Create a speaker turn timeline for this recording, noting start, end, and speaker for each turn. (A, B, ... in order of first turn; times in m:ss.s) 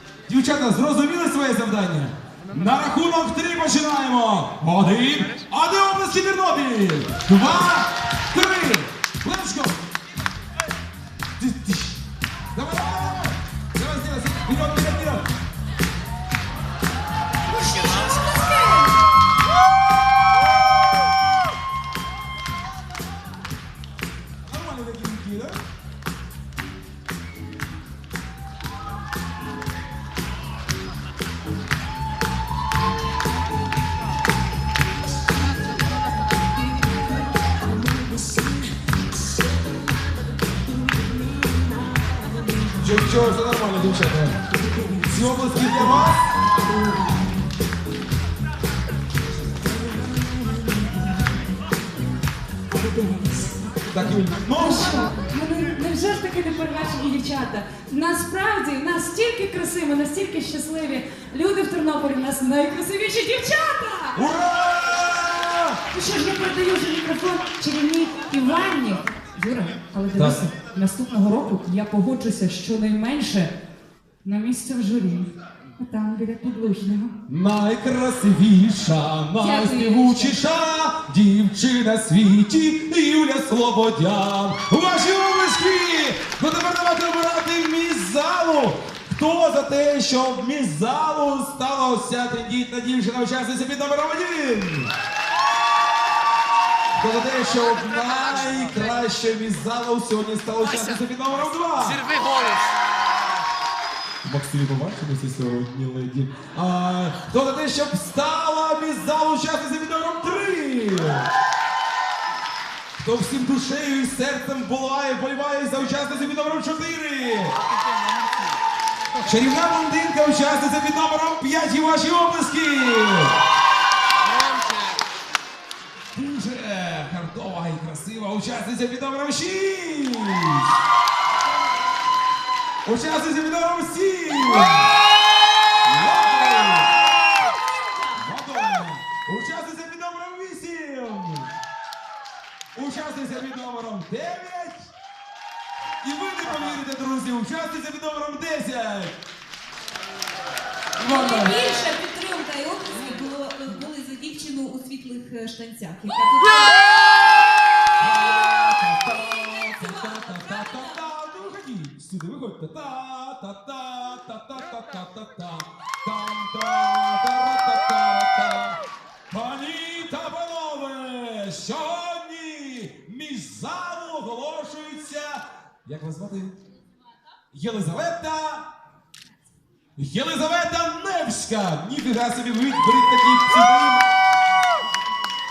0:00.3-0:09.8 A
0:11.4-0:15.2 A
0:17.7-0:18.1 B
0:24.4-0:25.6 A
0:42.8-0:44.4 A
0:45.0-0:46.2 A
0:53.0-0:53.5 B
0:53.9-0:55.1 A
0:54.5-1:04.3 B
1:04.1-1:05.8 A
1:05.9-1:13.5 B
1:10.1-1:10.5 A
1:14.2-1:17.2 B
1:17.3-1:34.9 A
1:19.4-1:20.0 C
1:37.0-1:42.1 A
1:44.2-1:51.3 A
1:53.0-1:57.6 A
1:59.2-2:03.4 A
2:06.1-2:10.7 A
2:12.8-2:14.9 A
2:15.8-2:16.9 A
2:18.1-2:21.5 A
2:22.7-2:24.9 A
2:26.0-2:29.1 A
2:31.0-2:31.6 A
2:31.0-2:36.8 C
2:38.0-2:56.6 A
2:39.0-2:41.0 C
2:57.5-2:58.7 A
3:00.0-3:04.0 A